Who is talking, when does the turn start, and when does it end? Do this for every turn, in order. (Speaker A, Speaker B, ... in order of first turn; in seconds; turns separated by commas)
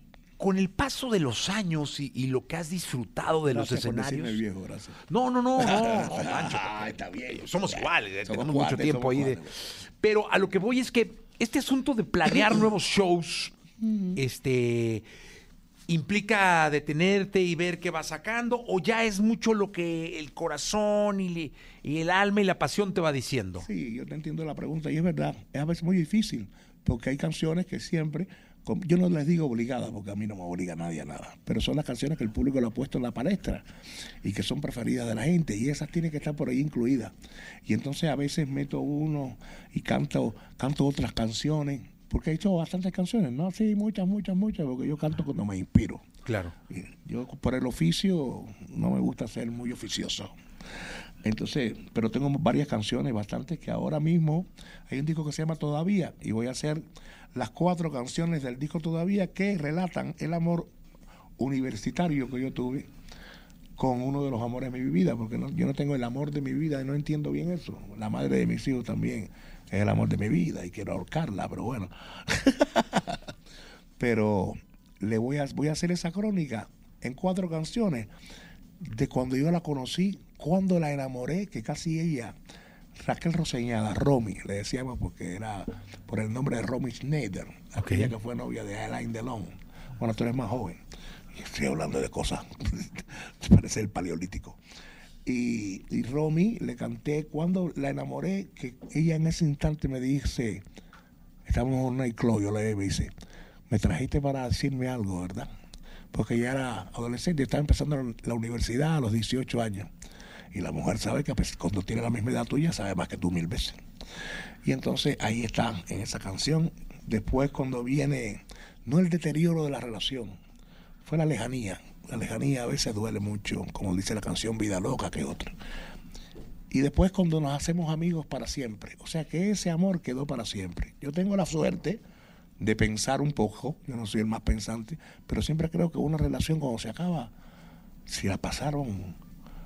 Speaker A: 0.4-4.4, Speaker B: 3.5-5.0, Speaker A: 5.1-13.5, Speaker B: 5.6-9.5, Speaker B: 12.3-12.7, Speaker B: 13.8-14.2, Speaker A: 14.2-15.1, Speaker A: 15.9-23.7, Speaker B: 23.6-33.6, Speaker B: 34.2-37.1, Speaker B: 37.7-46.0, Speaker A: 46.2-46.5, Speaker B: 46.7-50.4, Speaker B: 51.2-60.7, Speaker B: 61.4-62.9, Speaker B: 63.8-73.3, Speaker B: 74.0-78.1, Speaker B: 78.8-82.3, Speaker B: 83.0-90.8, Speaker A: 87.8-88.1, Speaker B: 91.3-94.6, Speaker B: 95.2-100.6, Speaker B: 101.5-103.1, Speaker B: 103.7-105.5, Speaker B: 106.1-109.9, Speaker B: 110.5-113.8, Speaker B: 114.7-120.4, Speaker B: 121.0-125.5, Speaker B: 126.7-132.0, Speaker B: 132.6-137.3, Speaker B: 138.1-139.2